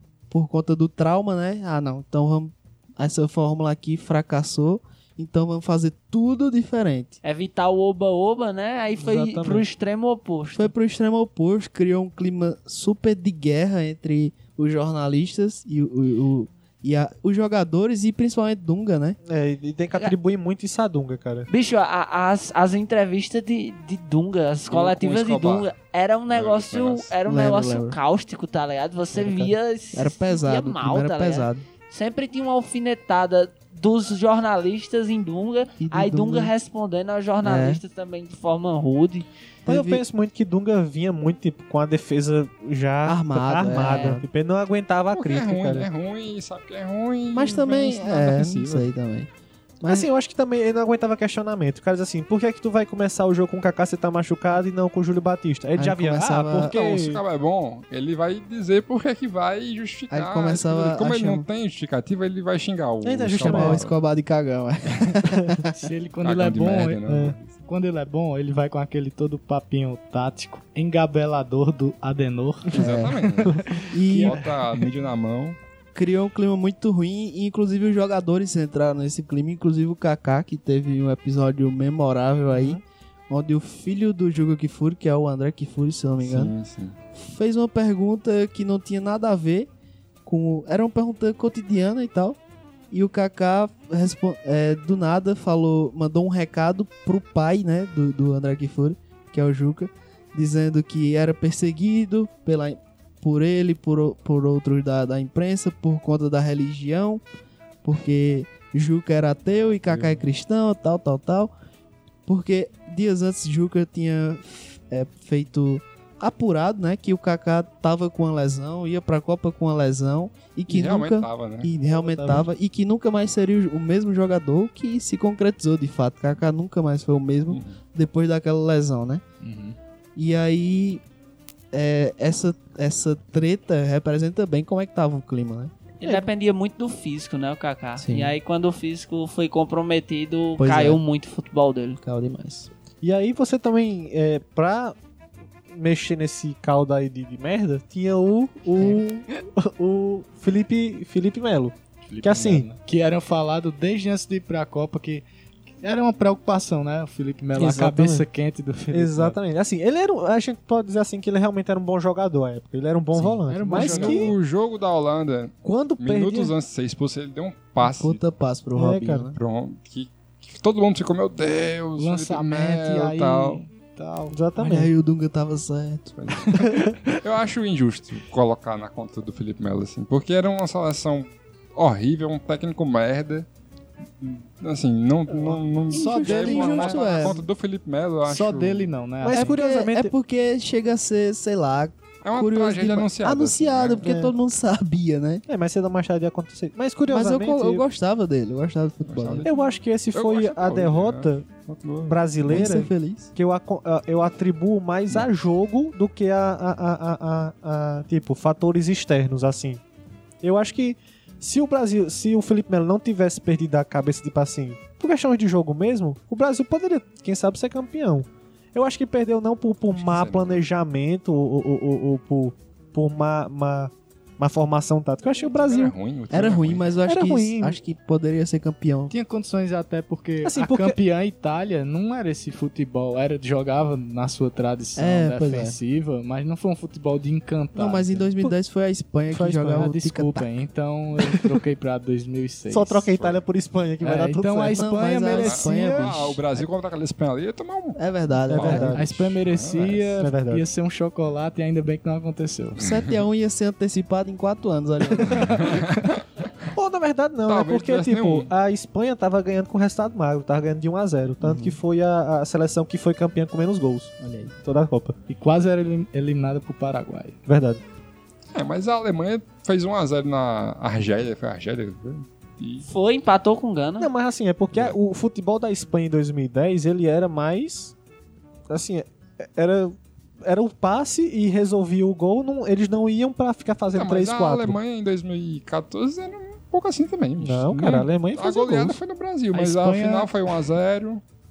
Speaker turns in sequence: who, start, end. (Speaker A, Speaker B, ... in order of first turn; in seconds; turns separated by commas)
Speaker A: 0.3-7.2, Speaker B: 7.2-10.7, Speaker C: 9.0-9.7, Speaker A: 10.5-19.2, Speaker C: 19.2-21.5, Speaker B: 21.5-39.3, Speaker D: 24.7-25.7, Speaker D: 26.3-27.1, Speaker A: 27.3-28.0, Speaker A: 29.2-31.6, Speaker A: 35.8-36.5, Speaker A: 37.4-37.8, Speaker A: 39.7-40.0, Speaker C: 39.7-45.9, Speaker A: 43.0-44.3, Speaker D: 45.1-48.9, Speaker A: 47.3-49.3, Speaker A: 49.8-50.1, Speaker C: 49.9-57.2, Speaker A: 55.8-56.7, Speaker D: 56.7-64.0, Speaker A: 60.1-61.5, Speaker C: 63.0-63.8, Speaker A: 63.4-65.7, Speaker C: 65.4-65.6, Speaker E: 65.7-67.0, Speaker D: 66.2-67.6, Speaker C: 67.1-67.3, Speaker E: 67.7-72.7, Speaker D: 72.7-75.6, Speaker A: 72.8-73.3, Speaker E: 73.8-74.7, Speaker A: 73.9-74.4, Speaker A: 75.9-86.5, Speaker C: 82.5-82.8, Speaker D: 86.2-87.0, Speaker A: 87.1-89.7, Speaker A: 90.2-92.4, Speaker A: 92.9-107.2, Speaker A: 107.8-111.5, Speaker D: 109.5-110.2, Speaker A: 112.3-129.2, Speaker D: 120.7-121.7, Speaker C: 121.9-122.5, Speaker D: 127.5-127.8, Speaker E: 129.4-129.8, Speaker A: 130.2-131.0, Speaker A: 131.7-135.7, Speaker B: 136.0-142.0, Speaker A: 138.0-138.4, Speaker A: 140.6-141.0, Speaker A: 142.0-142.7, Speaker C: 143.0-145.0, Speaker C: 145.7-152.7, Speaker E: 152.1-155.2, Speaker E: 155.8-159.4, Speaker C: 157.6-158.2, Speaker C: 158.9-164.3, Speaker E: 163.5-164.3, Speaker D: 163.7-168.2, Speaker C: 165.7-166.5, Speaker A: 167.8-169.4, Speaker C: 168.8-169.3, Speaker D: 169.3-173.6, Speaker E: 172.0-174.8, Speaker C: 174.3-174.9, Speaker A: 174.6-176.2, Speaker D: 176.2-176.6, Speaker E: 176.4-177.2, Speaker D: 177.1-183.5, Speaker D: 184.2-188.9, Speaker C: 185.3-186.1, Speaker E: 185.9-187.4, Speaker A: 185.9-187.4, Speaker E: 188.3-189.6, Speaker C: 189.2-190.1, Speaker A: 189.3-195.4, Speaker D: 192.2-194.1, Speaker C: 194.0-194.3, Speaker C: 195.5-197.8, Speaker A: 197.1-199.5, Speaker D: 199.1-199.6, Speaker C: 199.4-201.4, Speaker D: 200.1-202.7, Speaker C: 202.1-209.8, Speaker A: 202.5-203.3, Speaker C: 210.4-225.9, Speaker D: 219.9-220.7, Speaker D: 225.6-226.9, Speaker A: 226.3-229.1, Speaker C: 227.1-227.8, Speaker E: 229.1-238.3, Speaker C: 230.4-231.0, Speaker A: 235.0-235.8, Speaker A: 237.8-240.5, Speaker C: 239.3-239.9, Speaker E: 239.8-243.1, Speaker C: 241.2-241.6, Speaker C: 242.7-245.0, Speaker D: 243.1-243.4, Speaker E: 244.0-246.2, Speaker A: 244.7-246.7, Speaker D: 245.3-250.1, Speaker A: 248.0-249.1, Speaker C: 248.5-249.1, Speaker E: 248.9-252.8, Speaker C: 250.2-250.7, Speaker A: 252.8-255.6, Speaker D: 252.8-253.2, Speaker D: 255.4-256.2, Speaker E: 255.4-255.8, Speaker C: 256.7-265.2, Speaker D: 257.5-258.5, Speaker A: 261.4-261.8, Speaker A: 264.2-264.5, Speaker E: 265.3-267.4, Speaker C: 267.5-267.8, Speaker D: 268.5-272.9, Speaker B: 272.9-274.1, Speaker C: 274.0-277.9, Speaker D: 274.7-275.0, Speaker C: 278.7-284.8, Speaker D: 283.9-291.2, Speaker C: 287.4-289.0, Speaker E: 289.5-290.4